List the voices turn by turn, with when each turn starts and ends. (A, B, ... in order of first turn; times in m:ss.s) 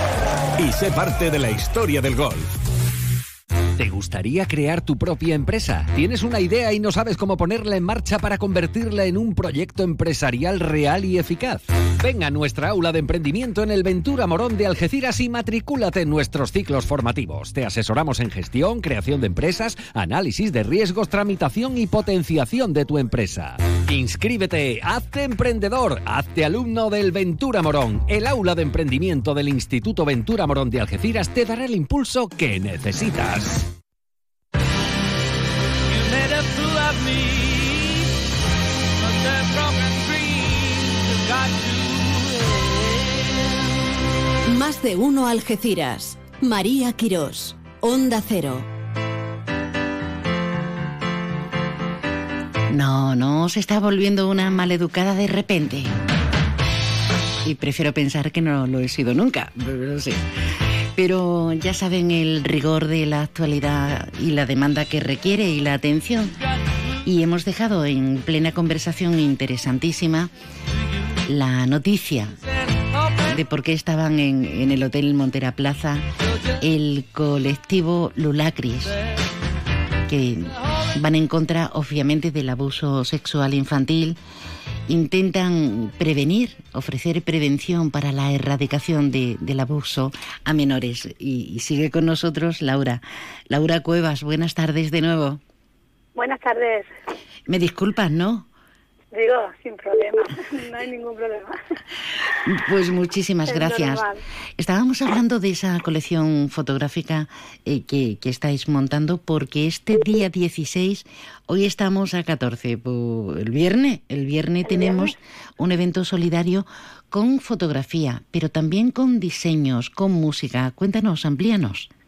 0:00.6-0:02.6 A
0:03.8-0:33.7 B
0:44.5-0:48.7 C
0:52.7-0:55.9 D
0:57.4-1:00.2 D
1:00.9-1:06.4 D
1:07.0-1:10.3 D
1:11.3-1:12.4 D
1:13.2-1:16.0 D
1:16.6-1:19.0 D
1:20.1-1:24.2 D
1:24.9-1:35.4 D
1:36.2-1:36.9 E
1:37.5-1:38.5 D
1:39.1-1:41.6 E
1:42.4-1:44.0 D
1:43.4-1:44.2 E
1:44.6-2:01.9 D
1:54.6-1:55.1 E